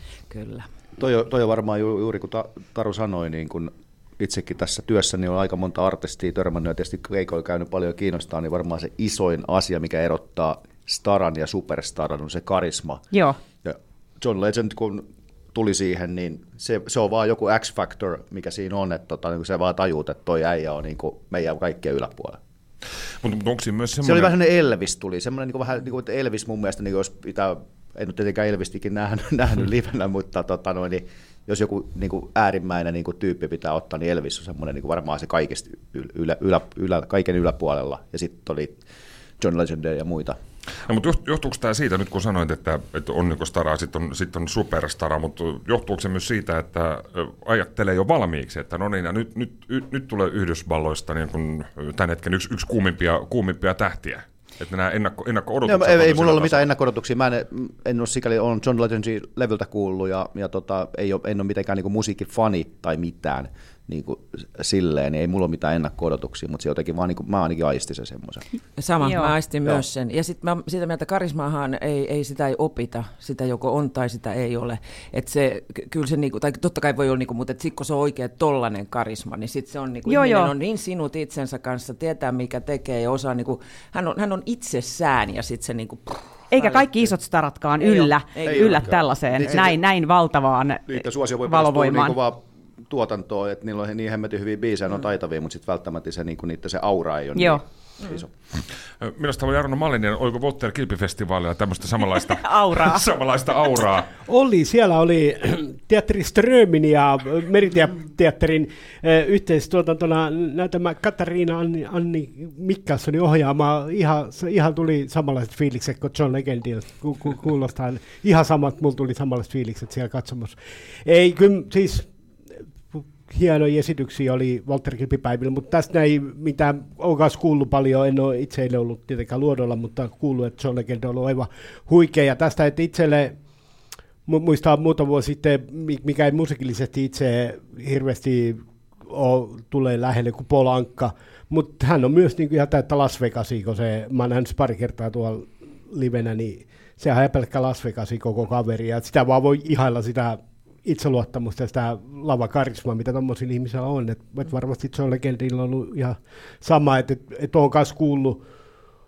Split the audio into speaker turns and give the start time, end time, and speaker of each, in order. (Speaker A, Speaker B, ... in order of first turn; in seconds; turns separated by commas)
Speaker A: 0.3-0.7, Speaker B: 1.0-13.1, Speaker C: 13.1-13.4, Speaker B: 13.6-22.4, Speaker D: 23.2-24.3, Speaker B: 24.0-38.8, Speaker B: 39.4-40.4, Speaker D: 40.9-56.7, Speaker B: 55.6-68.4, Speaker A: 68.8-87.1, Speaker C: 69.0-69.3, Speaker C: 80.1-80.5, Speaker C: 86.5-92.2, Speaker A: 87.8-89.6, Speaker B: 88.5-89.8, Speaker B: 90.9-98.3, Speaker C: 97.4-97.6, Speaker D: 99.0-104.1, Speaker C: 102.1-103.0, Speaker E: 104.3-122.1, Speaker E: 123.2-133.4, Speaker E: 134.3-158.4